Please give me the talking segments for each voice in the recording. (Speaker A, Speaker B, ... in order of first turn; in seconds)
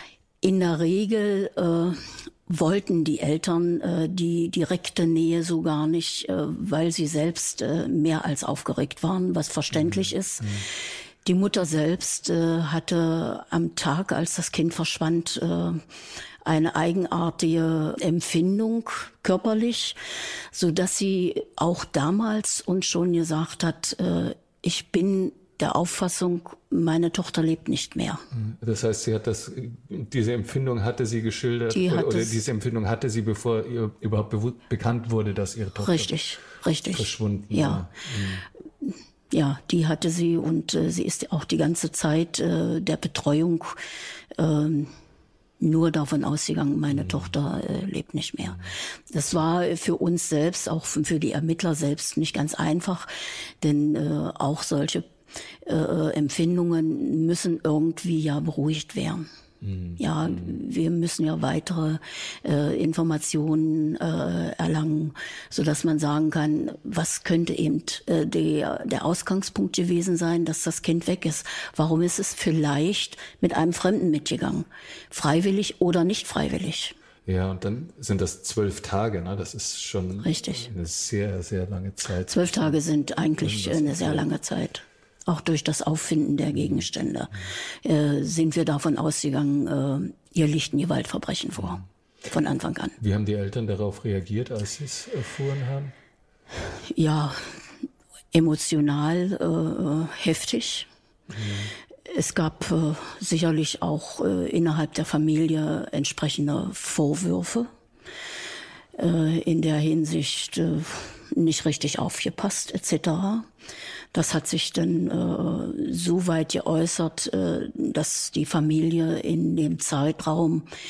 Speaker A: 0.4-10.6, 11.2-15.8, 16.4-20.0, 20.5-28.2, 31.7-32.4, 35.8-37.8, 39.3-43.7, 44.4-44.9, 45.6-53.1, 53.6-55.0, 55.6-59.3, 60.0-76.9, 80.2-80.7, 82.3-93.0, 96.9-97.4, 98.3-100.9, 102.1-107.7, 109.0-113.5, 114.1-120.7
Speaker B: 9.7-10.7, 28.3-36.1, 36.9-38.5, 46.9-47.3, 59.6-60.5, 77.2-82.8, 83.4-84.3, 86.5-86.8, 93.0-95.9, 101.3-101.7